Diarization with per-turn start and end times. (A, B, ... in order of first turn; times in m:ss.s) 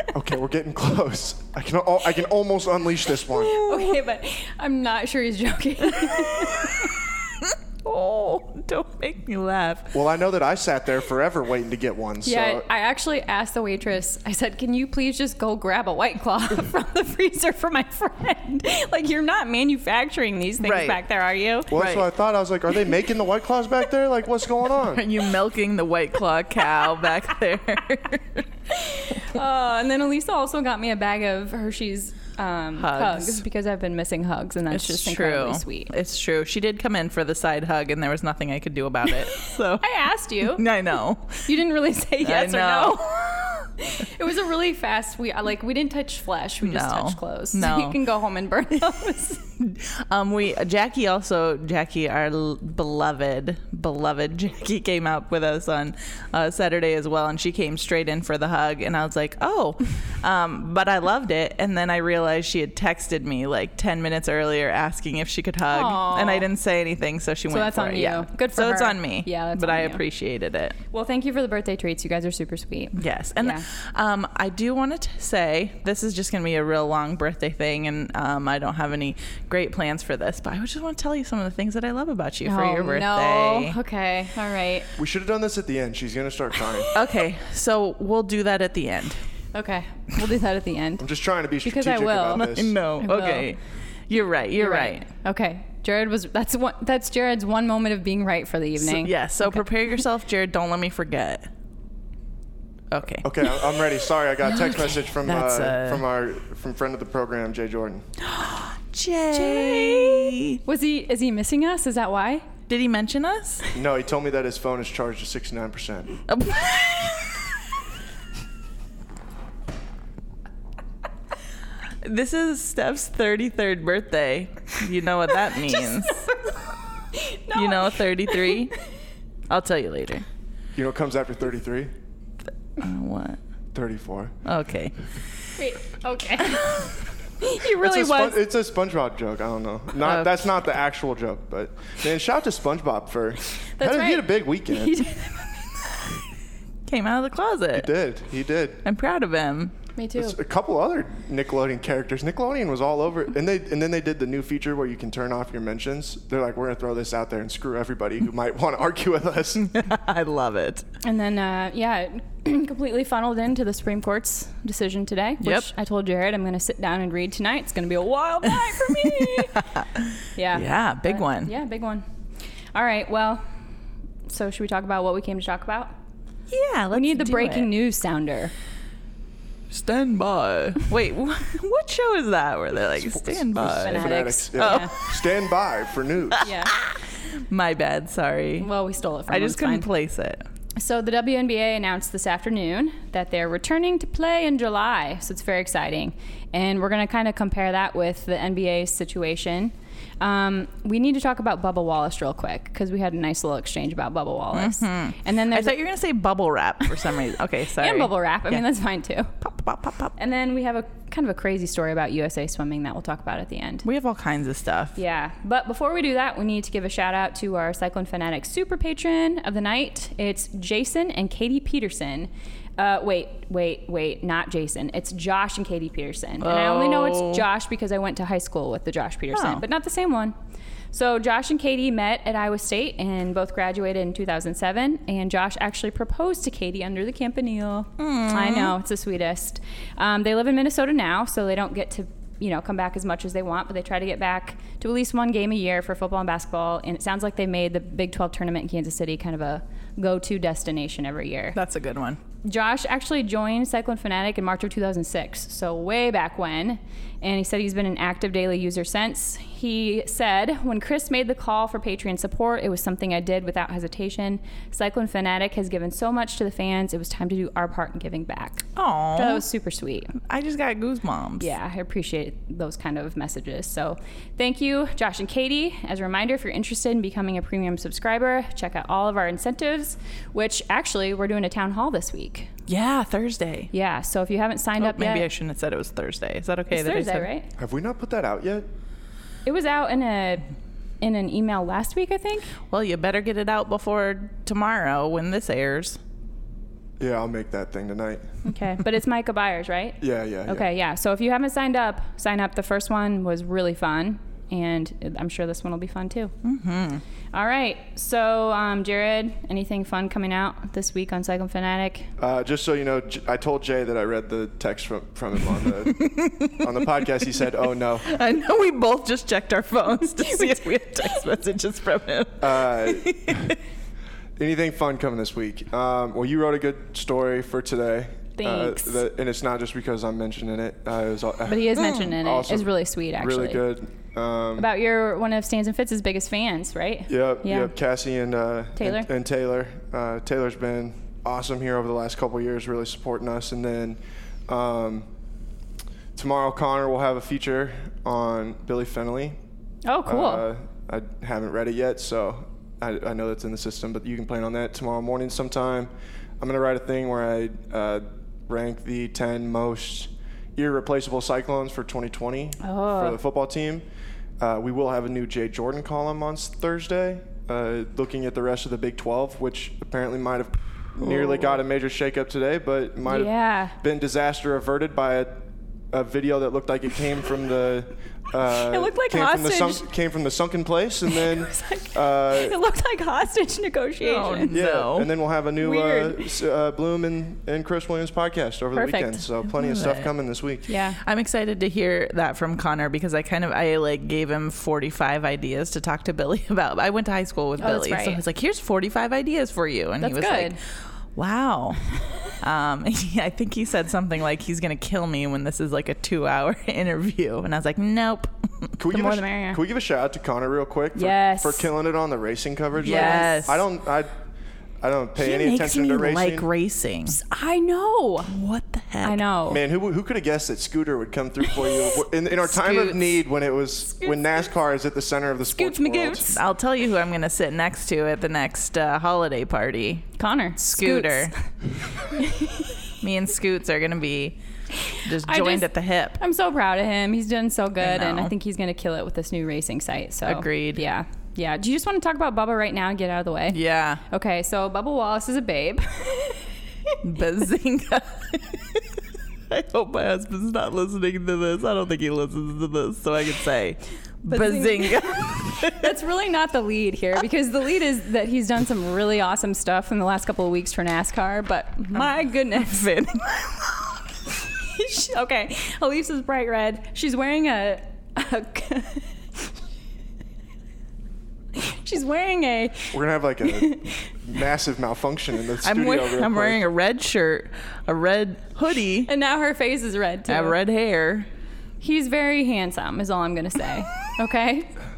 0:00.1-0:03.6 A
0:03.4-0:04.0 B
0:03.5-0:06.9 C
0:06.0-0:10.0 B
0:09.9-0:12.7 A
0:12.2-0:21.7 C
0:20.6-0:21.0 B
0:21.7-0:25.1 A
0:21.7-0:22.1 B
0:24.8-0:28.5 B
0:28.7-0:35.9 C
0:32.8-0:33.4 B
0:34.7-0:39.9 B
0:39.8-0:40.6 C
0:40.4-0:41.5 B
0:41.4-0:49.5 C
0:42.2-0:43.3 B
0:46.6-0:48.0 B
0:49.6-1:10.8 B
1:05.7-1:06.5 C
1:07.5-1:10.0 C
1:10.9-1:13.6 C
1:13.0-1:23.8 B
1:22.4-1:24.9 C
1:25.0-1:26.9 A
1:26.9-1:29.2 B
1:29.5-1:31.1 C
1:31.0-1:32.8 A
1:31.6-1:32.5 C
1:32.3-1:35.1 B
1:33.0-1:33.5 C
1:34.6-1:39.6 C
1:38.8-1:41.5 B
1:42.9-1:43.9 B
1:43.2-1:48.0 A
1:44.4-1:46.0 B
1:48.9-1:50.6 B
1:49.3-1:52.5 C
1:52.7-1:53.6 B
1:53.7-1:56.2 A
1:56.3-1:57.4 B
2:02.0-2:06.3 B
2:05.7-2:06.6 C
2:07.1-2:08.7 C
2:07.5-2:08.7 B
2:09.5-2:10.2 B
2:10.8-2:11.9 A
2:12.8-2:13.4 B
2:13.7-2:14.4 A
2:14.4-2:14.9 B
2:15.6-2:18.4 C
2:16.5-2:16.9 B
2:17.8-2:25.1 A
2:20.0-2:20.5 B
2:23.8-2:25.7 C
2:26.9-2:27.9 B
2:27.8-2:28.8 A
2:28.8-2:29.7 B
2:30.0-2:30.4 C
2:30.2-2:39.7 A
2:39.7-2:40.8 B
2:41.0-2:49.6 C
2:45.4-2:45.7 B
2:48.6-2:51.5 B
2:50.4-2:52.0 C
2:52.7-2:53.4 C
2:54.3-2:55.9 C
2:56.5-2:57.7 B
2:56.9-2:58.5 C
2:59.7-3:05.3 B
3:03.0-3:06.5 A
3:03.7-3:04.9 C
3:06.3-3:08.7 B
3:06.4-3:06.7 C
3:08.6-3:09.9 C
3:09.3-3:10.4 B
3:10.8-3:25.8 C
3:24.5-3:28.6 B
3:27.8-3:29.3 C
3:29.4-3:30.1 B
3:30.2-3:33.9 C
3:33.8-3:35.0 B
3:35.0-3:50.4 C
3:46.4-3:47.4 B
3:49.3-3:49.6 B
3:50.9-4:11.6 C
3:58.0-3:58.8 B
4:11.6-4:12.2 B
4:12.4-4:28.6 C
4:28.8-4:29.4 B
4:29.2-4:30.2 C
4:30.2-4:31.5 B
4:31.4-4:42.5 C
4:42.7-4:43.7 B
4:43.7-4:45.3 C
4:44.8-4:47.3 B
4:46.7-4:47.5 C
4:47.6-4:48.6 A
4:49.4-4:50.4 C
4:51.0-4:52.5 C
4:52.7-4:56.0 B
4:57.0-4:58.3 A
4:58.4-5:06.3 C
5:00.0-5:00.7 A
5:06.4-5:07.0 B
5:07.3-5:12.1 C
5:12.2-5:18.1 A
5:15.9-5:17.0 B
5:18.0-5:23.6 B
5:20.2-5:21.2 C
5:22.4-5:23.6 A
5:24.4-5:34.7 A
5:28.4-5:29.0 C
5:31.5-5:33.6 C
5:31.8-5:32.1 B
5:34.6-5:37.7 C
5:37.1-5:45.1 A
5:38.8-5:39.1 C
5:46.2-5:49.4 A
5:49.9-5:50.5 C
5:50.1-6:03.8 A
6:02.6-6:03.2 C
6:04.4-6:22.6 A
6:13.0-6:13.8 C
6:18.5-6:19.9 C
6:21.1-6:24.5 C
6:24.0-6:25.1 B
6:24.5-6:30.7 A
6:25.6-6:26.3 C
6:28.8-6:29.2 C
6:29.6-6:30.1 B
6:30.7-6:31.0 C
6:31.0-6:40.6 B
6:37.6-6:38.2 C
6:40.0-6:40.6 C
6:41.2-6:41.9 B
6:42.4-6:48.7 B
6:48.8-6:54.1 A
6:48.9-6:49.6 C
6:51.0-6:51.7 C
6:52.8-6:53.5 C
6:52.8-6:53.6 B
6:54.8-6:56.5 A
6:55.2-6:57.2 B
6:57.1-6:58.3 C
6:58.3-6:59.2 B
6:59.0-6:59.6 C
6:59.5-7:06.4 A
7:02.5-7:03.1 B
7:03.9-7:04.5 C
7:05.5-7:06.4 C
7:06.3-7:11.3 B
7:10.2-7:12.7 C
7:13.0-7:14.4 B
7:14.8-7:27.0 C
7:15.0-7:16.2 B
7:17.8-7:18.3 B
7:20.3-7:20.8 B
7:23.5-7:24.0 B
7:27.0-7:28.9 B
7:29.5-7:35.9 B
7:34.3-7:43.1 C
7:41.9-7:43.9 B
7:44.4-7:49.5 C
7:51.5-7:54.2 C
7:52.9-7:56.6 A
7:55.6-7:59.1 B
7:59.1-8:00.6 C
8:00.3-8:01.3 B
8:01.8-8:04.7 C